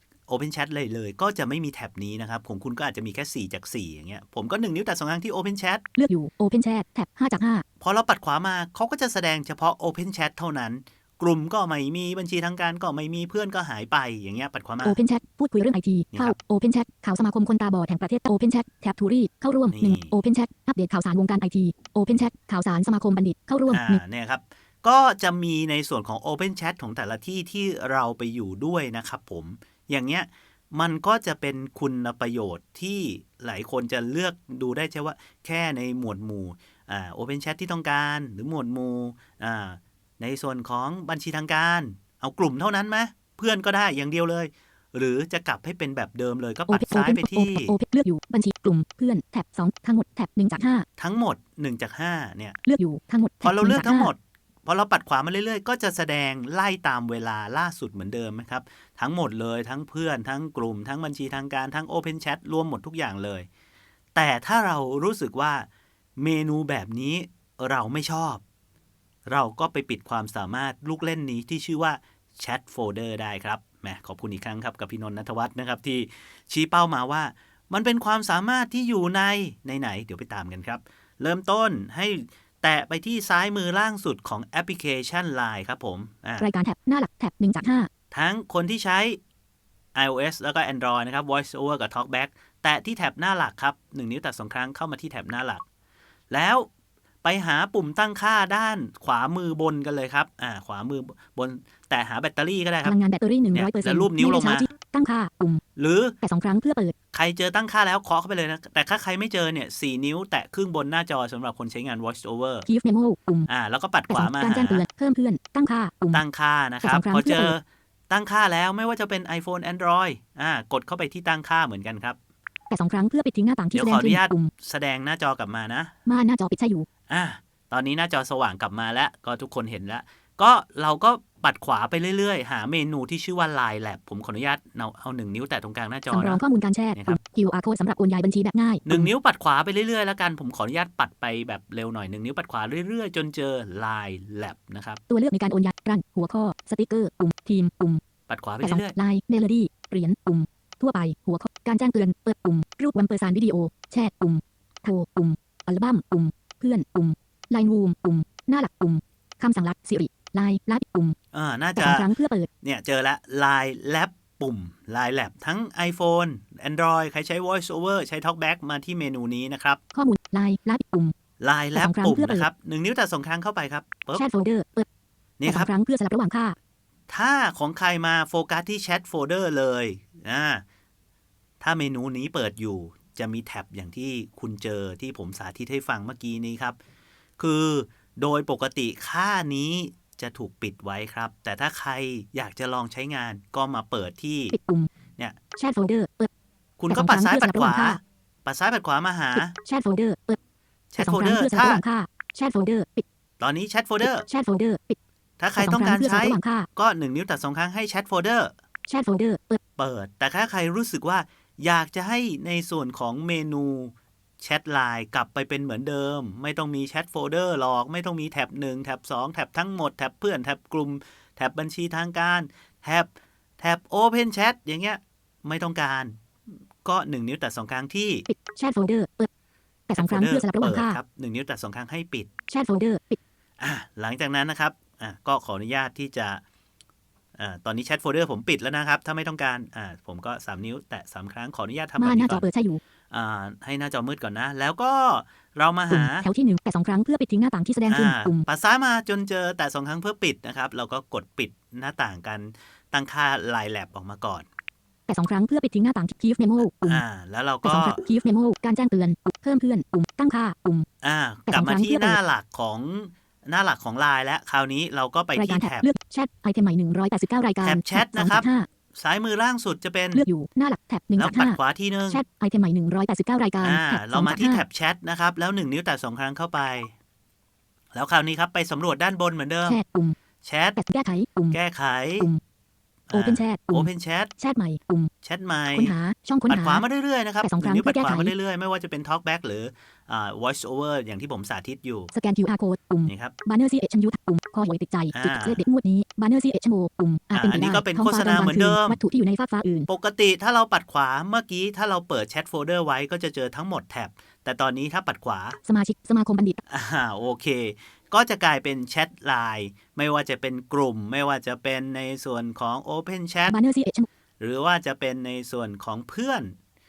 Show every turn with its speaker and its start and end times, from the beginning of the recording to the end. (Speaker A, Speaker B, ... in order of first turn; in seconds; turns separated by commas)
Speaker A: 0.3-5.8, Speaker B: 6.0-7.7, Speaker A: 7.8-15.0, Speaker B: 14.8-24.0, Speaker A: 19.7-20.1, Speaker A: 23.7-47.7, Speaker B: 46.7-50.9, Speaker A: 51.0-52.6, Speaker B: 52.6-54.1, Speaker A: 53.4-63.5, Speaker A: 64.2-68.4, Speaker A: 69.3-86.5, Speaker B: 86.4-87.9, Speaker A: 88.1-89.2, Speaker A: 90.0-95.6, Speaker A: 96.3-96.7, Speaker A: 97.2-102.9, Speaker B: 102.8-105.6, Speaker A: 103.5-104.7, Speaker A: 105.8-106.2, Speaker B: 106.2-106.9, Speaker A: 107.1-112.7, Speaker B: 112.7-113.5, Speaker A: 113.5-114.8, Speaker B: 114.1-116.2, Speaker A: 116.1-122.2, Speaker B: 116.8-117.6, Speaker B: 122.7-124.5, Speaker A: 123.7-125.9, Speaker B: 126.1-126.9, Speaker A: 127.1-136.4, Speaker B: 136.1-139.1, Speaker A: 138.9-145.0, Speaker B: 145.1-148.0, Speaker A: 148.3-149.0, Speaker B: 148.6-161.2, Speaker A: 161.3-162.1, Speaker B: 161.8-162.5, Speaker A: 162.6-169.8, Speaker B: 169.9-171.2, Speaker A: 171.4-174.2, Speaker B: 171.8-172.5, Speaker B: 174.1-174.9, Speaker A: 175.4-175.7, Speaker B: 175.5-176.6, Speaker A: 177.1-180.6, Speaker A: 181.6-186.8, Speaker A: 187.4-194.6, Speaker B: 194.5-194.9, Speaker B: 195.6-196.3, Speaker A: 196.8-199.6, Speaker B: 196.9-198.0, Speaker B: 199.3-200.4, Speaker A: 200.9-201.8, Speaker B: 201.0-203.0, Speaker A: 203.4-204.3, Speaker B: 204.0-205.0, Speaker A: 205.4-208.5, Speaker B: 205.6-206.7, Speaker B: 208.9-209.6, Speaker A: 209.8-226.2, Speaker A: 226.8-228.3, Speaker B: 228.3-229.3, Speaker B: 229.9-231.0, Speaker A: 230.0-232.3, Speaker B: 232.5-233.2, Speaker A: 233.6-236.4, Speaker A: 237.4-242.4, Speaker B: 242.0-242.8, Speaker A: 243.1-246.3, Speaker B: 245.9-248.5, Speaker A: 247.9-254.5, Speaker B: 255.1-257.0, Speaker A: 256.9-258.0, Speaker B: 257.6-260.9, Speaker A: 261.0-265.9, Speaker B: 261.5-262.2, Speaker B: 265.4-268.7, Speaker A: 267.6-270.3, Speaker B: 270.1-274.6, Speaker A: 271.2-272.2, Speaker A: 273.6-276.9, Speaker A: 277.9-279.8, Speaker B: 279.6-280.2, Speaker A: 280.4-280.8, Speaker B: 280.8-281.6, Speaker A: 281.5-282.3, Speaker A: 283.1-284.3, Speaker B: 283.1-285.1, Speaker A: 285.2-285.9, Speaker B: 285.7-286.8, Speaker A: 286.5-292.1, Speaker B: 287.4-288.3, Speaker B: 292.1-299.9, Speaker A: 293.1-293.4, Speaker A: 295.1-295.6, Speaker A: 297.3-299.0, Speaker A: 299.9-305.6, Speaker B: 305.6-306.6, Speaker A: 306.7-313.6, Speaker B: 313.5-314.1, Speaker A: 314.4-316.6